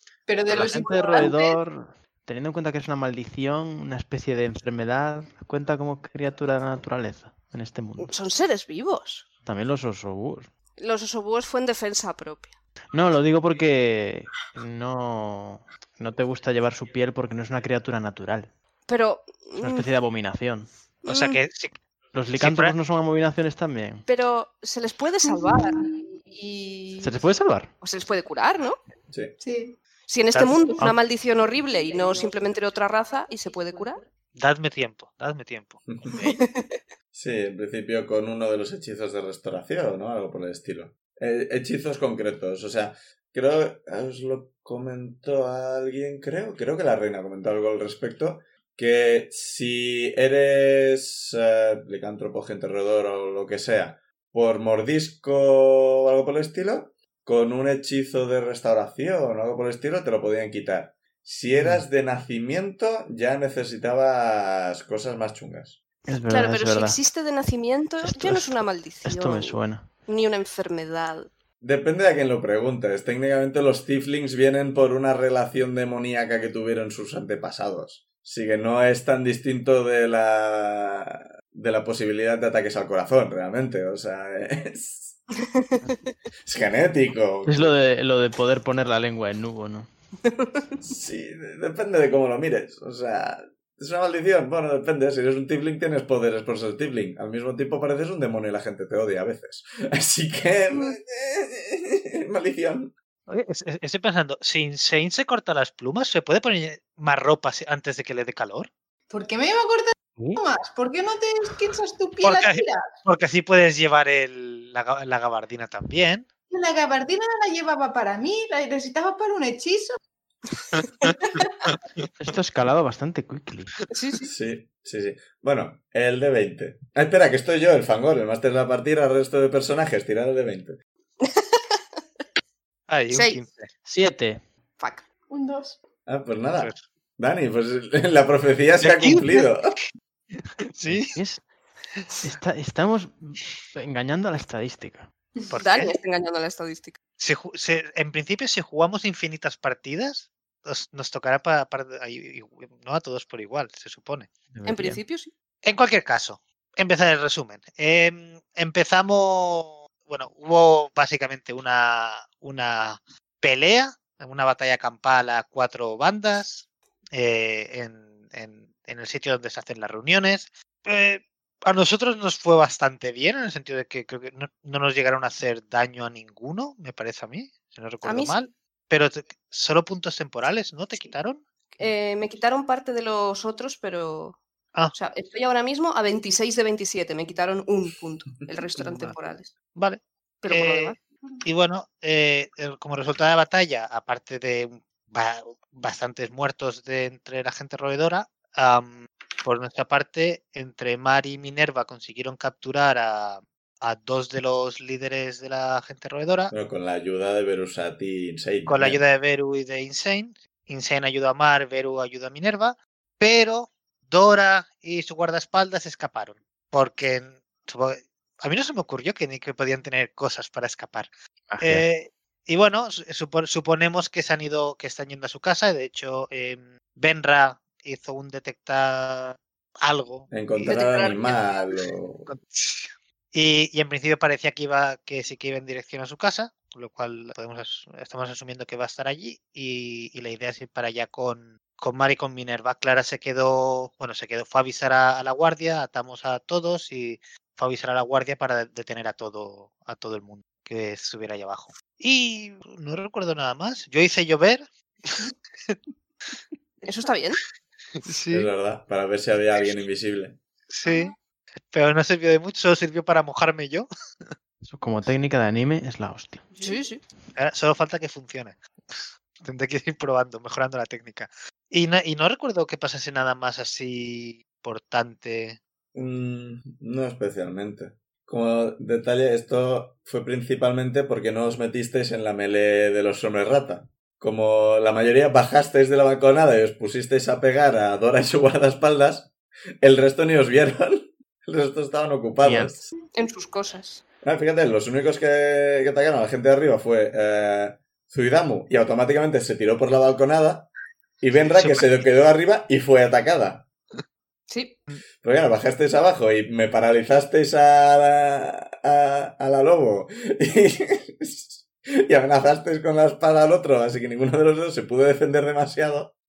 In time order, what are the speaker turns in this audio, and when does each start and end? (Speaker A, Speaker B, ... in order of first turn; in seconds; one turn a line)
Speaker A: 0.3-1.6
Speaker B: 0.5-1.3
Speaker C: 0.5-8.1
Speaker D: 8.0-9.3
Speaker C: 9.4-10.5
Speaker D: 10.8-12.5
Speaker C: 12.9-18.5
Speaker D: 18.9-19.9
Speaker C: 19.6-20.7
Speaker D: 21.0-21.4
Speaker B: 21.1-21.8
Speaker C: 22.1-24.1
Speaker B: 22.4-22.7
Speaker D: 24.1-27.2
Speaker A: 25.2-25.9
Speaker C: 27.0-27.7
Speaker D: 27.8-28.8
Speaker E: 29.1-29.4
Speaker A: 29.4-29.8
Speaker D: 30.1-34.0
Speaker B: 30.3-30.7
Speaker B: 34.3-36.4
Speaker D: 36.2-36.8
Speaker E: 37.1-65.8
Speaker C: 61.5-61.8
Speaker C: 66.1-67.0
Speaker D: 66.3-71.3
Speaker C: 68.0-69.9
Speaker E: 71.6-85.2
Speaker E: 86.4-87.7
Speaker C: 87.5-89.9
Speaker D: 90.4-90.7
Speaker E: 90.8-102.9
Speaker B: 103.3-108.7
Speaker A: 109.1-112.9
Speaker B: 112.2-116.3
Speaker A: 116.5-120.0
Speaker B: 120.7-121.1
Speaker C: 122.2-123.7
Speaker D: 123.9-124.3
Speaker E: 124.2-130.8
Speaker D: 131.2-131.8
Speaker B: 132.9-133.7
Speaker D: 133.1-133.4
Speaker C: 133.8-134.4
Speaker D: 134.8-135.0
Speaker A: 135.3-135.8
Speaker E: 136.1-139.7
Speaker B: 138.8-141.2
Speaker C: 140.9-141.5
Speaker C: 142.2-145.1
Speaker B: 145.5-145.9
Speaker D: 145.6-147.0
Speaker B: 147.2-154.3
Speaker C: 154.5-155.0
Speaker D: 154.7-155.3
Speaker B: 155.6-181.4
Speaker D: 178.0-178.3
Speaker D: 181.8-184.4
Speaker D: 184.9-189.5
Speaker B: 188.8-189.1
Speaker B: 189.7-206.5
Speaker D: 190.4-191.0
Speaker E: 206.5-209.0
Speaker B: 208.7-221.1
Speaker C: 221.5-221.8
Speaker B: 221.6-230.3
Speaker E: 230.3-232.3
Speaker D: 230.6-231.7
Speaker B: 232.3-255.8
Speaker D: 256.8-257.4
Speaker B: 258.0-258.5
Speaker E: 258.3-260.4
Speaker B: 260.7-264.3
Speaker C: 264.6-266.6
Speaker D: 266.6-267.0
Speaker B: 267.3-275.6
Speaker E: 275.9-292.8
Speaker C: 292.4-292.8
Speaker D: 293.1-294.0
Speaker E: 294.2-303.7
Speaker B: 301.3-301.9
Speaker D: 304.5-304.8
Speaker E: 305.2-316.1